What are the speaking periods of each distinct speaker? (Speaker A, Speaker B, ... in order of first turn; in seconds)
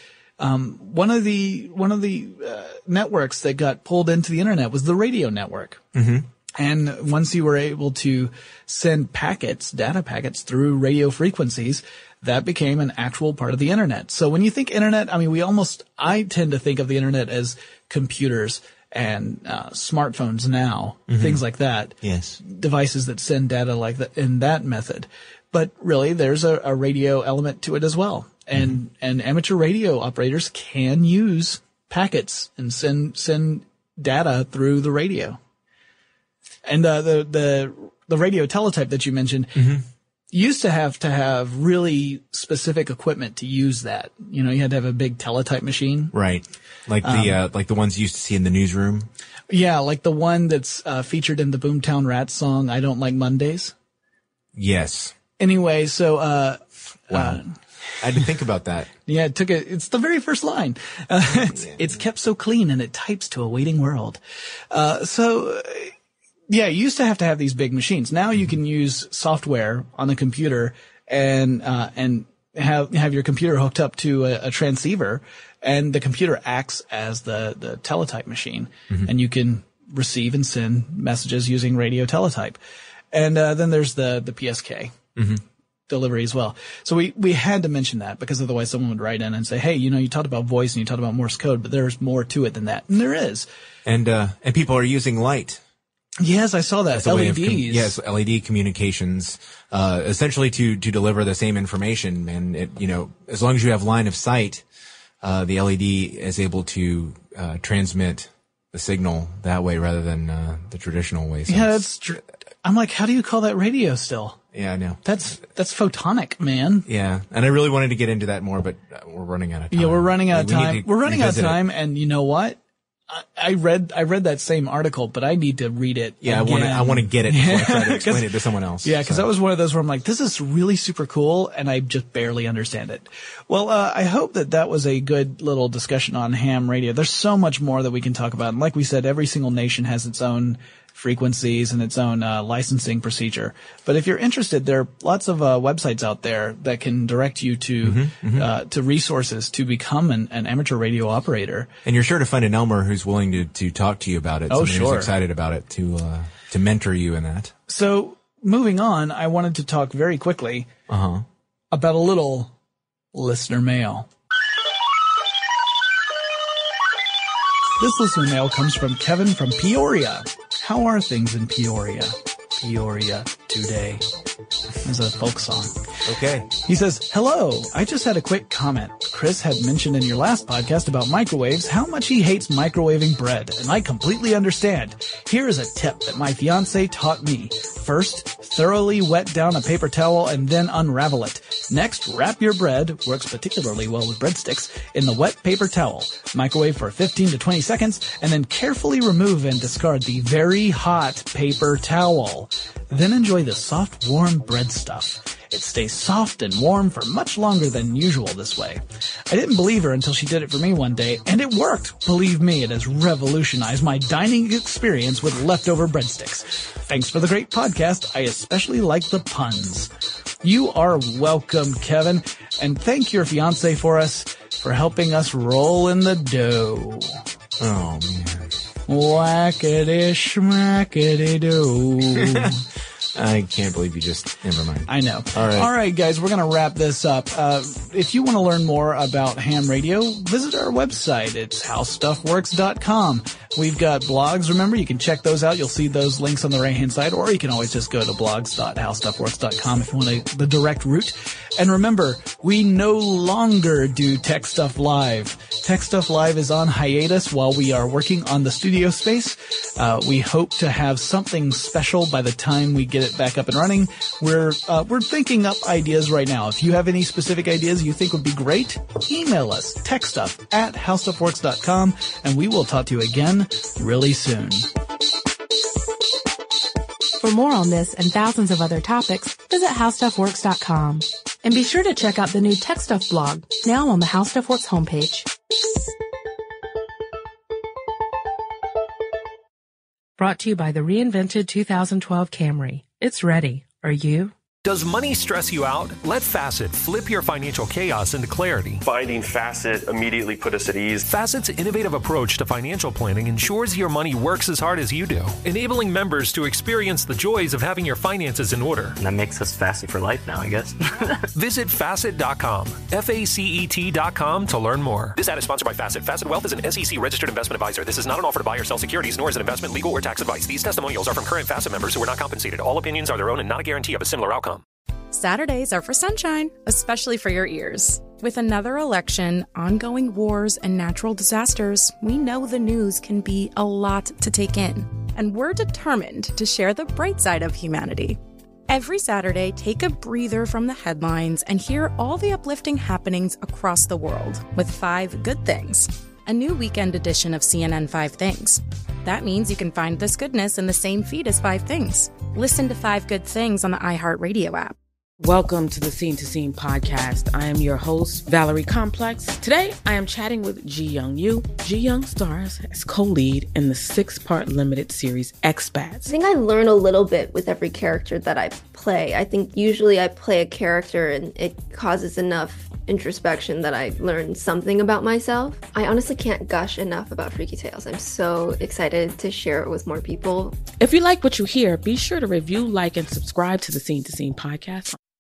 Speaker A: 0.4-5.8, 6.6-35.4, 36.7-39.8, 40.3-46.1, 47.0-47.4, 49.5-53.7, 55.4-58.3, 59.1-64.2, 64.7-65.9, 66.5-82.6, 83.1-85.0, 85.9-93.5, 96.2-97.9, 111.5-114.4, 115.0-116.9, 119.7-122.6, 123.1-128.3, 128.8-151.7, 154.5-155.1, 157.7-160.7, 161.7-162.5, 163.1-164.1, 167.8-174.0, 174.8-175.8, 176.6-219.9, 220.4-227.1, 228.9-232.6, 234.9-274.7
Speaker B: 5.9-6.3, 21.1-21.4, 22.0-22.4, 39.6-39.8, 46.1-49.1, 54.5-55.1, 57.1-57.4, 58.0-58.9, 61.5-61.8, 85.2-85.4, 93.8-95.6, 96.9-104.6, 105.2-111.8, 114.5-115.0, 116.9-121.6, 126.2-129.3, 147.8-148.5, 151.8-157.5, 160.9-161.3, 176.1-176.5, 227.6-228.5, 232.2-232.5, 233.2-235.7
Speaker C: 277.2-285.3, 290.2-294.4
Speaker D: 294.6-298.8, 301.1-309.0, 311.4-324.6
Speaker E: 298.8-301.1
Speaker F: 309.0-311.1
Speaker G: 325.1-354.8
Speaker H: 355.2-366.1, 380.8-385.0
Speaker I: 366.1-380.6